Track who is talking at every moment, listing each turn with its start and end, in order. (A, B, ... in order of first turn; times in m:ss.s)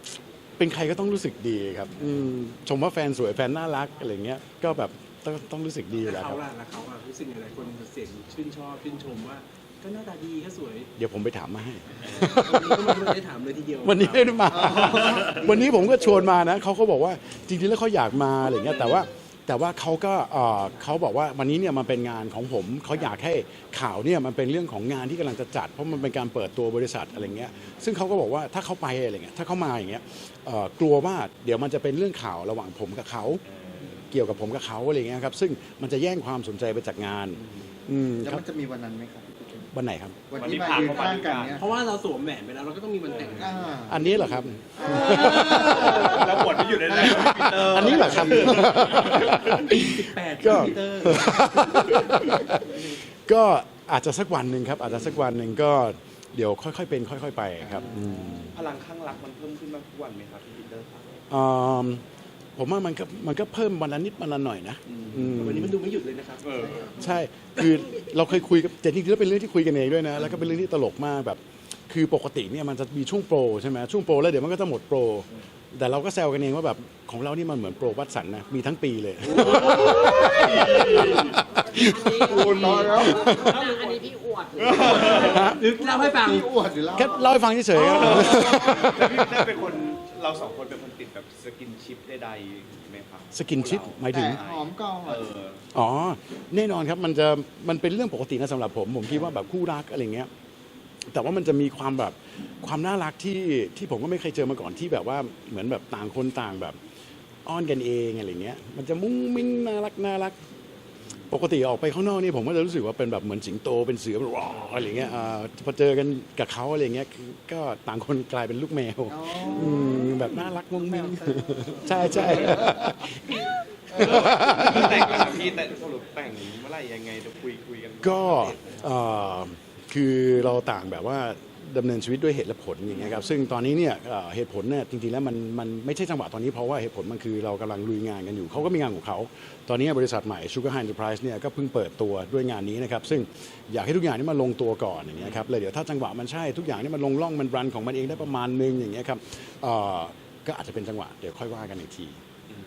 0:00.6-0:06.4 A
0:06.0-0:10.9 B
0:11.0-0:13.1 A
0:12.1-0:14.4 B
0:13.8-0:33.4 A
0:14.5-0:16.1 C
0:33.5-0:34.0 D
0:34.1-0:38.4 A
0:38.2-0:39.6 C
0:39.7-0:40.2 A
0:40.3-0:41.6 C
0:40.4-0:41.6 D
0:41.6-0:43.7 B
0:43.3-0:49.2 C
0:43.9-0:58.6 A
0:44.8-0:46.3 B
0:45.2-0:49.3 D
0:48.8-0:52.3 B
0:50.5-0:52.0 C
0:58.0-1:01.2 D
1:01.3-1:02.0 A
1:02.6-1:05.8 A
1:05.0-1:05.3 D
1:05.1-1:06.9 B
1:06.4-1:06.8 D
1:06.6-1:07.2 C
1:06.9-1:21.2 A
1:19.3-1:21.4 D
1:19.4-1:21.3 C
1:21.6-1:25.5 E
1:21.7-1:23.5 A
1:22.2-1:23.5 D
1:22.3-1:23.4 C
1:23.5-1:24.0 B
1:24.6-1:25.5 D
1:24.9-1:25.3 C
1:24.9-1:26.6 B
1:25.1-1:25.6 A
1:25.9-1:29.6 C
1:26.9-1:29.2 A
1:27.7-1:35.6 D
1:33.3-1:34.4 A
1:34.1-1:35.3 C
1:35.7-1:40.3 A
1:41.1-1:46.8 A
1:47.4-1:50.4 A
1:51.3-2:05.3 A
1:59.1-2:05.5 C
2:02.0-2:02.6 D
2:03.9-2:08.7 D
2:08.0-2:32.2 A